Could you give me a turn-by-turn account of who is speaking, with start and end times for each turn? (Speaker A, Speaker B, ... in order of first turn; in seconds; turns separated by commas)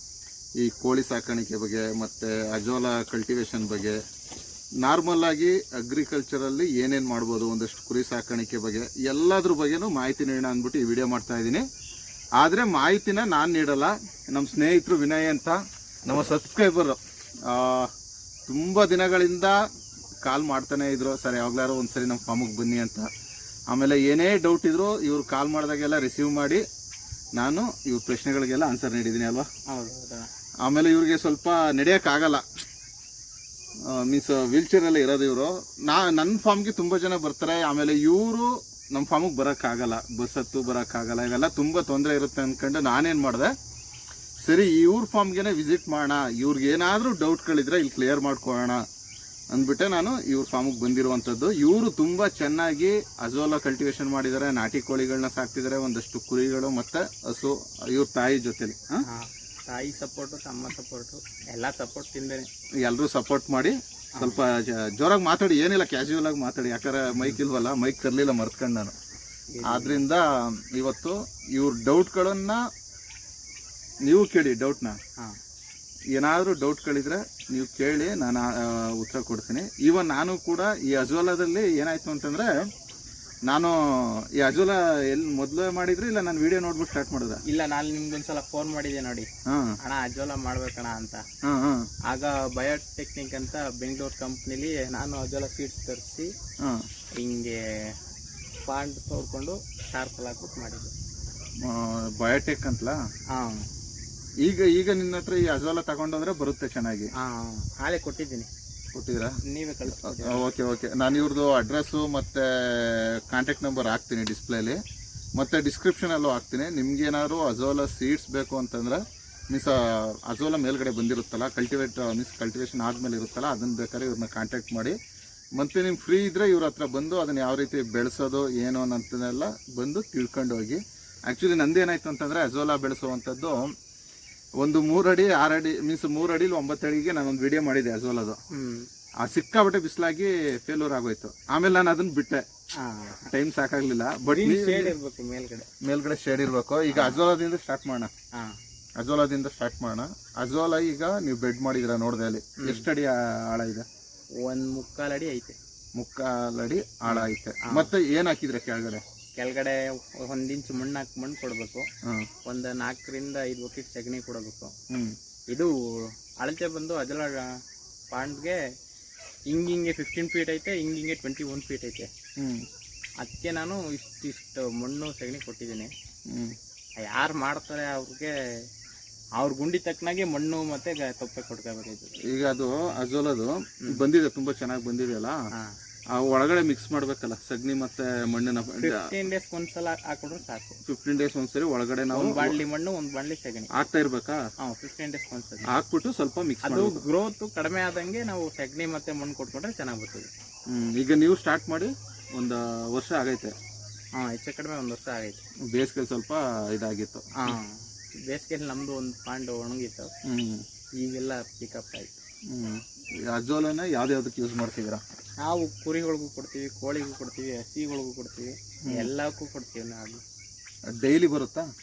Speaker A: 0.6-4.0, Speaker A: 4.8-11.7, Speaker A: 12.4-17.9, Speaker A: 18.5-19.6, Speaker A: 20.2-23.1, Speaker A: 23.7-26.6, Speaker A: 27.4-29.5, Speaker B: 29.7-30.3, Speaker A: 30.6-32.6, Speaker A: 33.8-43.5, Speaker A: 44.4-48.8, Speaker A: 49.5-59.0, Speaker B: 59.0-62.5, Speaker A: 62.8-68.9, Speaker B: 64.2-64.4, Speaker B: 69.5-70.0, Speaker A: 69.6-72.6, Speaker A: 74.0-75.0, Speaker A: 76.1-82.5, Speaker A: 83.5-87.4, Speaker B: 87.4-89.3, Speaker A: 89.5-89.8, Speaker B: 89.8-91.2, Speaker A: 91.4-91.9, Speaker B: 92.1-96.3, Speaker B: 97.2-98.0, Speaker B: 98.6-100.9, Speaker A: 101.6-103.0, Speaker B: 103.3-103.7, Speaker A: 104.4-107.1, Speaker B: 107.2-108.5, Speaker A: 108.9-114.8, Speaker B: 109.4-110.5, Speaker A: 115.3-125.0, Speaker A: 125.5-133.6, Speaker A: 134.6-138.4, Speaker B: 138.5-138.9, Speaker A: 139.2-142.4, Speaker B: 142.8-143.3, Speaker A: 143.3-144.9, Speaker B: 144.3-145.7, Speaker A: 145.8-148.1, Speaker B: 146.9-147.2, Speaker A: 149.0-153.8, Speaker B: 152.6-152.9, Speaker B: 154.4-155.5, Speaker A: 155.9-159.0, Speaker B: 157.1-157.9, Speaker B: 159.4-161.9, Speaker B: 162.4-164.7, Speaker A: 164.9-165.2, Speaker B: 165.5-167.5, Speaker B: 168.1-168.6, Speaker B: 169.5-172.1, Speaker A: 172.4-172.7, Speaker B: 173.2-175.9, Speaker A: 176.3-176.6, Speaker B: 177.0-178.3, Speaker B: 179.4-182.1, Speaker A: 182.3-185.4, Speaker A: 186.1-189.1, Speaker B: 188.8-190.8, Speaker A: 190.8-192.6, Speaker B: 192.1-193.8, Speaker A: 193.7-194.4, Speaker B: 194.6-195.7, Speaker A: 195.7-197.0, Speaker B: 196.6-200.3, Speaker A: 200.7-203.5, Speaker B: 204.1-205.4, Speaker A: 205.7-207.6, Speaker B: 207.4-210.1, Speaker A: 210.2-210.6, Speaker B: 211.0-212.2, Speaker A: 212.5-215.0, Speaker B: 215.4-220.2, Speaker A: 218.8-219.1, Speaker A: 220.9-221.7